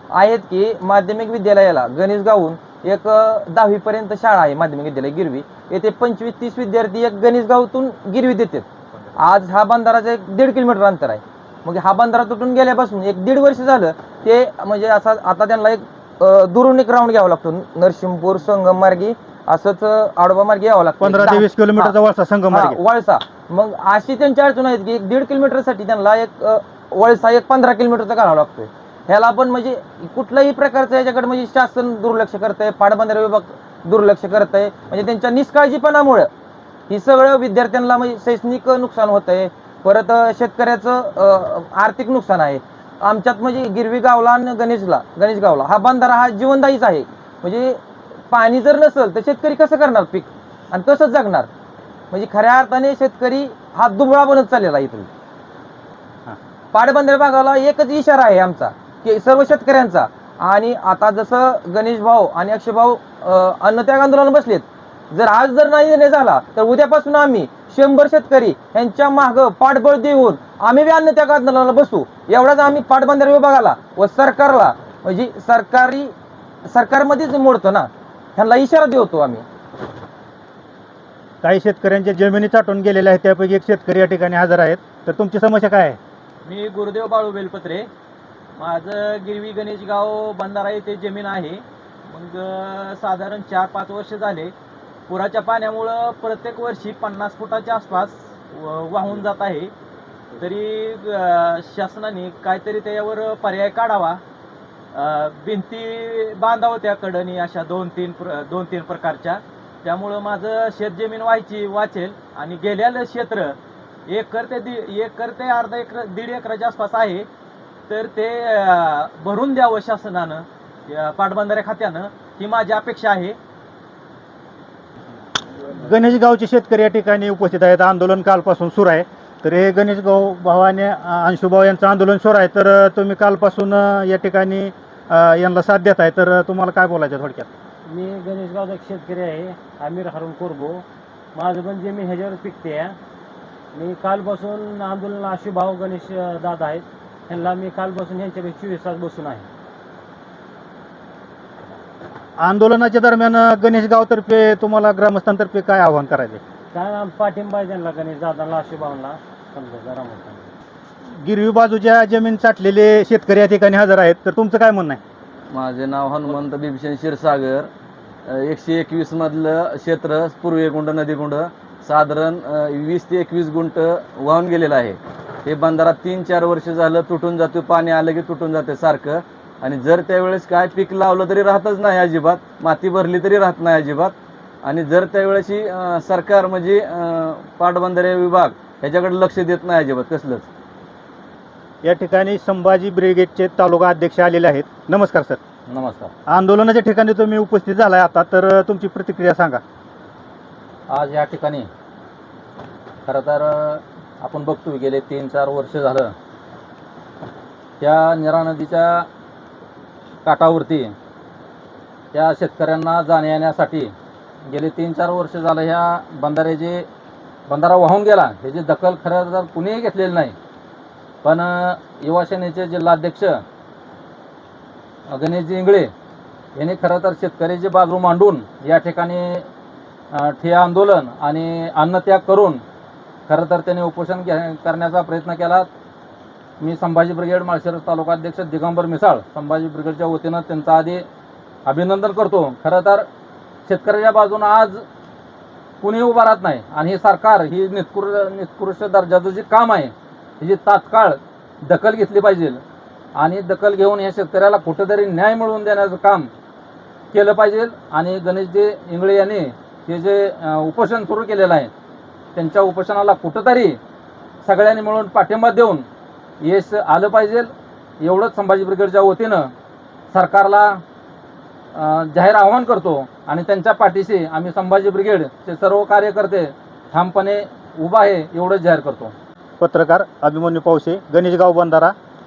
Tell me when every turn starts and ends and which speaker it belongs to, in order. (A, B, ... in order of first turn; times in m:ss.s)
0:00.1-0:08.6 A
0:09.2-0:21.9 A
0:21.0-0:22.8 B
0:22.5-0:36.3 A
0:36.9-0:47.8 A
0:48.3-0:51.5 A
0:52.1-0:55.1 A
0:56.7-1:16.1 A
1:16.7-1:19.4 A
1:21.4-1:26.0 B
1:26.4-1:27.9 C
1:28.6-1:34.5 C
1:35.1-1:39.7 C
1:40.4-1:44.2 C
1:44.9-1:53.6 C
1:54.1-1:57.3 C
1:57.9-2:03.4 C
2:05.8-2:17.5 B
2:17.9-2:20.8 D
2:21.3-2:23.0 D
2:23.7-2:29.4 D
2:32.4-2:36.4 B
2:36.7-2:40.5 D
2:41.2-2:45.0 B
2:45.5-2:47.7 E
2:48.2-3:10.5 E
3:11.8-3:15.4 B
3:15.7-3:16.1 F
3:16.3-3:19.6 B
3:20.9-3:21.7 F
3:23.0-3:26.1 F
3:27.8-3:29.1 F
3:30.2-3:30.9 F
3:32.1-3:33.9 F
3:34.5-3:36.9 F
3:37.5-3:40.3 F
3:41.2-3:43.4 F
3:45.1-3:45.9 F
3:46.5-3:49.4 F
3:50.1-3:52.6 F
3:53.3-3:55.7 F
3:56.6-4:01.0 F
4:01.6-4:03.1 F
4:03.6-4:04.8 F
4:05.8-4:12.6 F
4:13.1-4:16.3 F
4:17.1-4:21.7 F
4:22.3-4:23.8 F
4:24.4-4:25.8 F
4:26.4-4:29.5 F
4:30.1-4:30.8 F
4:31.7-4:39.1 F
4:39.6-4:41.9 B